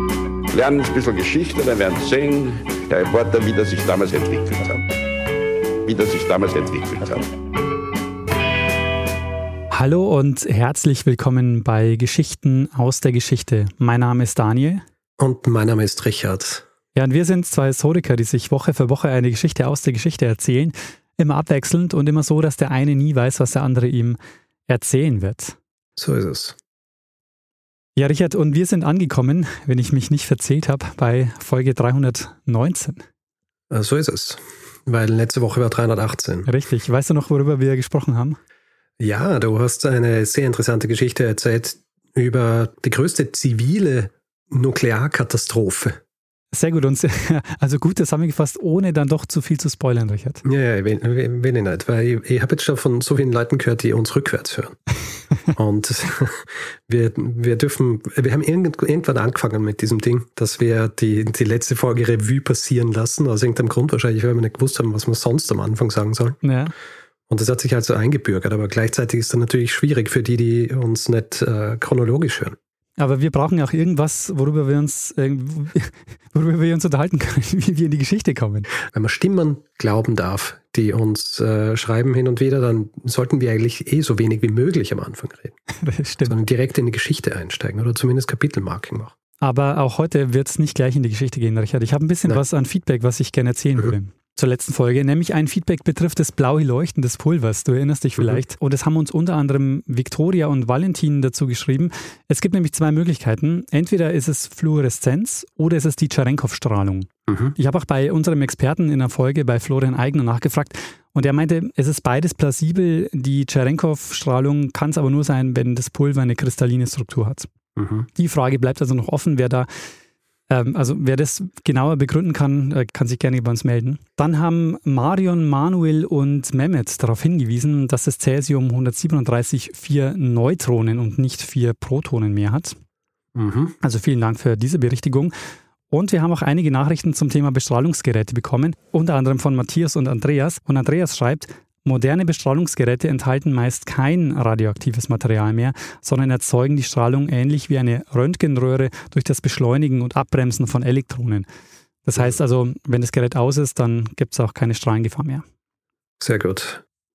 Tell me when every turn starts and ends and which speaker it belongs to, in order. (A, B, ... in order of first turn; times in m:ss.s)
0:00.5-0:04.8 A
0:05.8-0:07.3 A
0:09.7-0:14.8 B
0:15.2-0:16.6 C
0:17.0-0:25.6 B
0:26.0-0:26.6 C
0:28.0-0:33.0 B
0:33.7-0:36.5 C
0:36.4-0:38.4 B
0:39.0-0:46.0 C
0:46.5-0:50.4 B
0:50.4-0:54.8 C
0:55.5-1:06.4 C
1:06.4-1:06.7 B
1:07.3-1:12.6 C
1:13.0-1:18.7 B
1:18.9-1:25.6 C
1:25.8-1:26.4 B
1:26.3-1:29.1 C
1:29.4-1:57.5 B
1:47.3-1:47.5 C
1:57.8-1:58.1 C
1:58.2-1:59.7 B
2:00.5-2:12.8 B
2:13.3-2:13.8 C
2:13.8-2:15.3 B
2:15.9-2:31.5 B
2:32.0-2:35.4 B
2:36.2-2:36.8 C